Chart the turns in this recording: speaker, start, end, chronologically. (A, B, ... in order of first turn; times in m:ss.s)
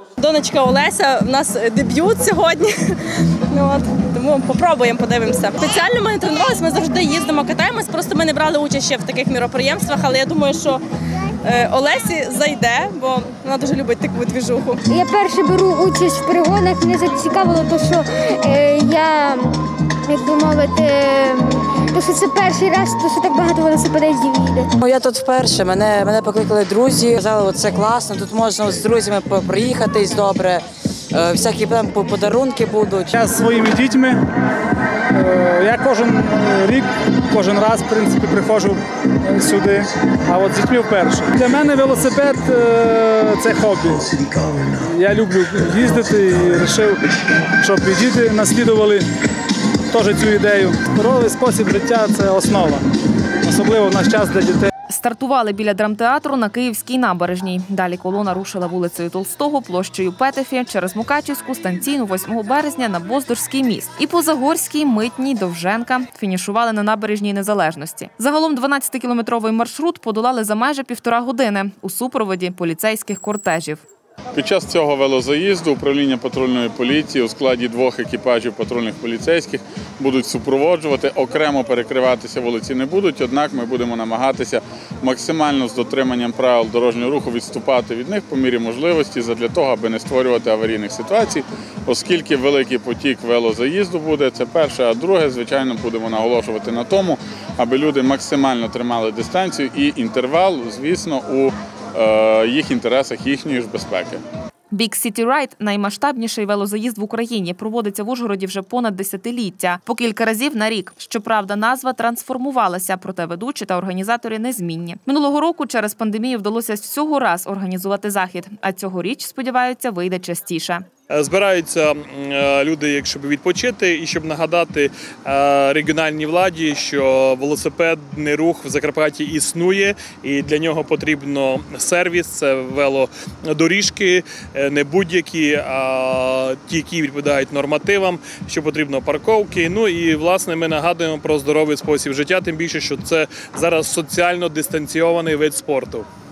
0:00.2-0:03.0 A
0:03.5-0:10.8 A
0:11.4-0:14.8 A
0:14.9-0:24.7 B
0:25.0-0:30.6 C
0:31.2-0:32.4 C
0:33.1-0:34.2 D
0:35.1-0:47.0 D
0:47.6-0:49.1 D
0:49.9-0:52.9 D
0:53.4-0:54.7 D
0:54.9-1:13.8 E
1:14.3-1:44.2 F
1:44.7-2:00.9 E
2:01.1-2:26.1 G